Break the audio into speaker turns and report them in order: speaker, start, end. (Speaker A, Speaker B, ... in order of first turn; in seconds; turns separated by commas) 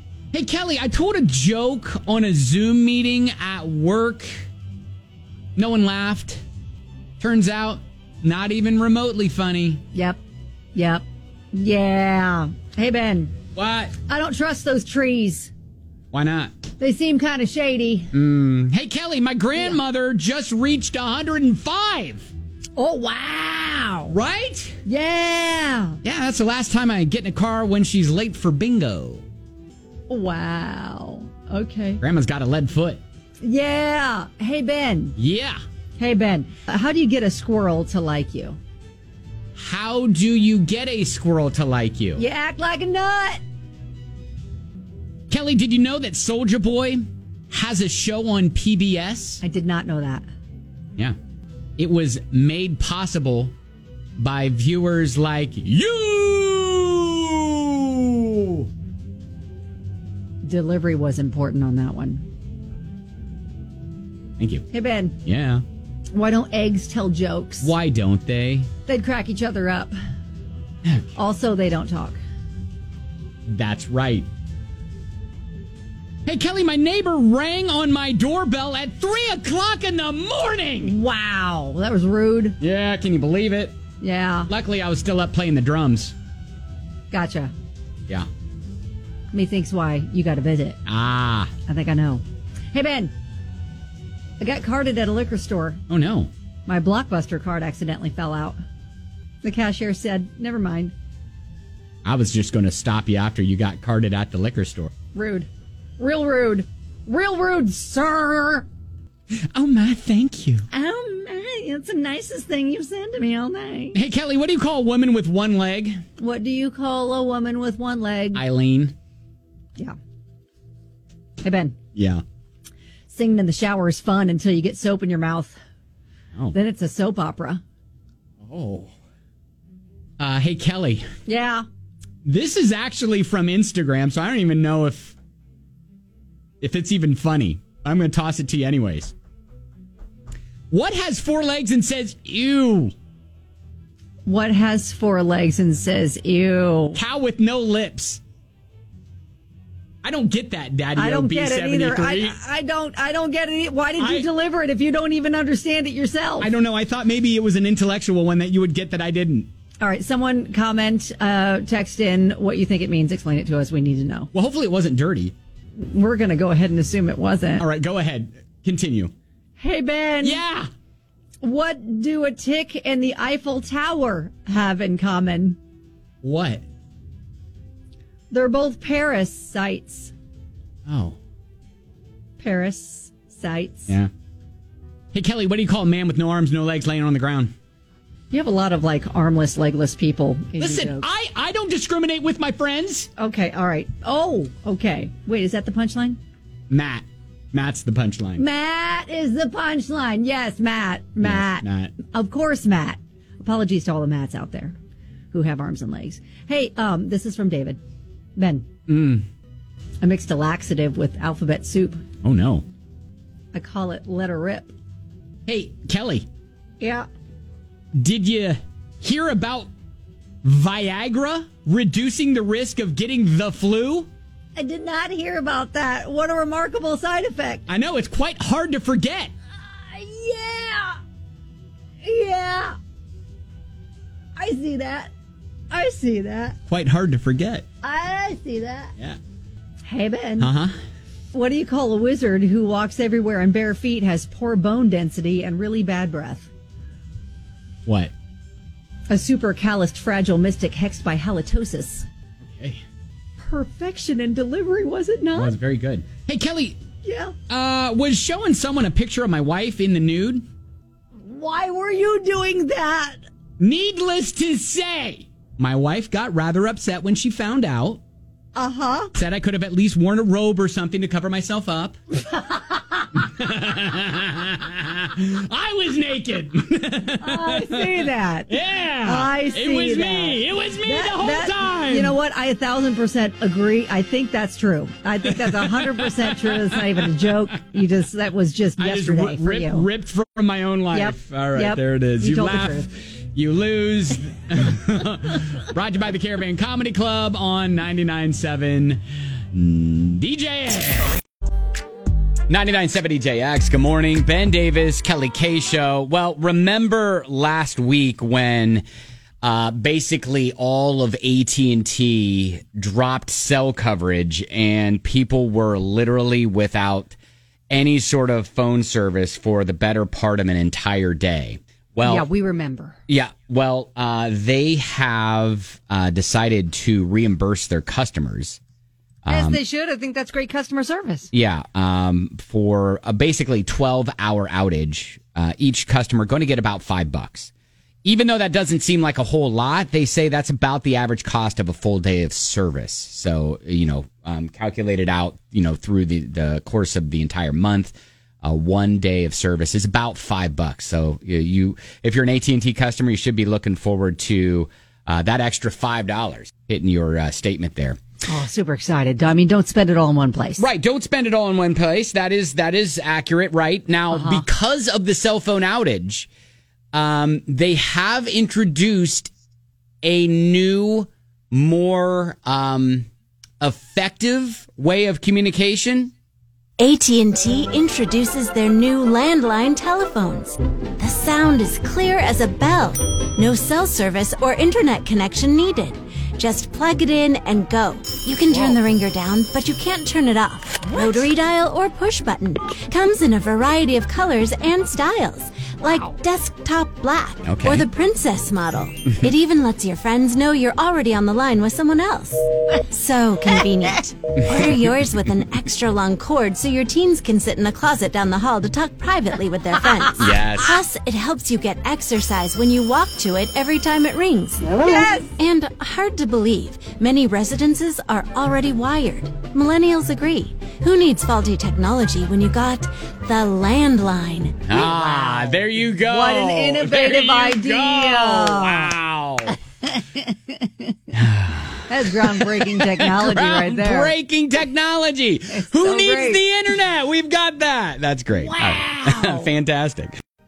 Speaker A: 0.3-4.5, Speaker A: 5.6-6.4, Speaker A: 7.2-9.8, Speaker B: 9.9-10.2, Speaker B: 10.8-13.3, Speaker A: 13.6-13.9, Speaker B: 14.1-15.5, Speaker A: 16.1-16.5, Speaker B: 16.8-18.1, Speaker A: 18.1-22.3, Speaker B: 22.8-24.1, Speaker A: 24.1-24.8, Speaker B: 24.9-26.0, Speaker A: 26.0-29.2, Speaker B: 30.1-32.0, Speaker A: 32.0-33.0, Speaker B: 33.4-35.2, Speaker A: 35.2-35.6, Speaker B: 36.0-38.6, Speaker A: 39.6-42.2, Speaker B: 42.2-43.4, Speaker A: 45.3-49.4, Speaker B: 49.4-50.3, Speaker A: 51.8-53.5, Speaker A: 54.2-58.7, Speaker B: 60.4-62.2, Speaker A: 64.4-64.7, Speaker B: 64.7-65.2, Speaker A: 65.3-65.6, Speaker B: 66.1-67.7, Speaker A: 67.6-68.7, Speaker B: 68.9-70.0, Speaker B: 71.2-72.2, Speaker A: 73.5-74.3, Speaker A: 76.3-80.9, Speaker B: 80.8-82.6, Speaker A: 82.6-83.8, Speaker B: 84.0-84.5, Speaker A: 84.5-86.2, Speaker B: 87.1-87.5, Speaker B: 89.3-90.8, Speaker A: 90.9-91.5, Speaker B: 91.7-93.1, Speaker B: 94.4-95.8, Speaker A: 95.9-96.3, Speaker B: 96.7-98.6, Speaker B: 99.4-100.9, Speaker A: 102.0-104.9, Speaker B: 105.2-105.5, Speaker B: 106.0-108.7, Speaker A: 109.5-110.7, Speaker B: 110.7-114.0, Speaker A: 113.9-116.0, Speaker B: 116.2-118.4, Speaker A: 118.3-119.0, Speaker B: 121.4-121.8, Speaker A: 122.0-122.2, Speaker B: 123.1-125.6, Speaker B: 126.5-127.6, Speaker A: 128.4-128.9, Speaker A: 130.2-131.1, Speaker B: 131.3-131.7, Speaker A: 132.2-135.2, Speaker A: 136.6-139.1, Speaker A: 140.7-142.9, Speaker B: 144.3-147.0, Speaker A: 146.9-148.2, Speaker A: 150.0-152.4, Speaker B: 151.0-156.5, Speaker A: 154.0-154.3, Speaker A: 156.4-159.5, Speaker B: 159.8-164.3, Speaker A: 164.3-165.3, Speaker B: 165.8-167.7, Speaker A: 167.6-169.1, Speaker B: 169.6-170.4, Speaker A: 170.2-170.7, Speaker B: 171.4-175.6, Speaker A: 176.2-176.6, Speaker B: 178.3-180.1, Speaker A: 180.9-181.2, Speaker B: 182.4-183.9, Speaker A: 185.1-187.5, Speaker B: 188.3-191.1, Speaker A: 190.6-193.1, Speaker B: 193.2-196.2, Speaker A: 196.7-198.4, Speaker B: 198.4-204.8, Speaker A: 201.2-201.9, Speaker B: 205.3-207.8, Speaker B: 208.4-208.7, Speaker A: 208.9-209.2, Speaker B: 210.0-212.0, Speaker A: 212.2-212.7, Speaker B: 213.5-214.7, Speaker A: 215.5-216.3, Speaker B: 216.8-217.1, Speaker A: 217.9-219.7, Speaker A: 220.4-224.1, Speaker B: 224.6-227.7, Speaker A: 227.7-229.3, Speaker B: 229.6-231.0, Speaker B: 232.0-232.8, Speaker B: 234.4-235.1, Speaker B: 235.7-236.6, Speaker A: 236.7-237.7, Speaker B: 237.8-238.9, Speaker B: 239.9-240.5, Speaker A: 240.4-240.8, Speaker B: 241.3-246.5, Speaker A: 247.9-248.1, Speaker B: 249.1-252.1, Speaker A: 252.6-252.8, Speaker B: 253.4-255.6, Speaker A: 255.3-256.8, Speaker B: 257.0-257.3, Speaker A: 257.5-260.4, Speaker B: 261.2-263.2, Speaker A: 263.6-268.0, Speaker B: 268.6-269.1, Speaker A: 269.1-272.0, Speaker B: 272.3-273.1, Speaker A: 273.1-282.1, Speaker B: 277.2-278.5, Speaker B: 279.0-289.9, Speaker A: 285.3-287.1, Speaker A: 288.8-299.0, Speaker B: 290.9-292.9, Speaker A: 299.5-301.1, Speaker A: 302.5-308.8, Speaker A: 309.4-317.1, Speaker A: 317.7-322.3, Speaker B: 322.0-323.0, Speaker A: 323.1-328.6, Speaker A: 329.2-329.6, Speaker B: 329.3-331.3, Speaker A: 331.3-337.5, Speaker A: 338.1-358.0, Speaker B: 358.3-360.6, Speaker A: 360.6-366.3, Speaker B: 364.1-364.4, Speaker A: 366.9-369.3, Speaker A: 370.0-373.1, Speaker A: 373.6-376.1, Speaker C: 376.8-424.8, Speaker B: 390.8-391.3, Speaker B: 395.8-396.1, Speaker A: 397.4-397.9, Speaker A: 410.2-410.7, Speaker B: 414.7-415.3, Speaker A: 424.7-429.6, Speaker B: 424.8-428.9, Speaker B: 429.8-430.9, Speaker A: 431.1-440.1, Speaker B: 431.9-434.1, Speaker B: 435.5-436.4, Speaker B: 438.4-439.5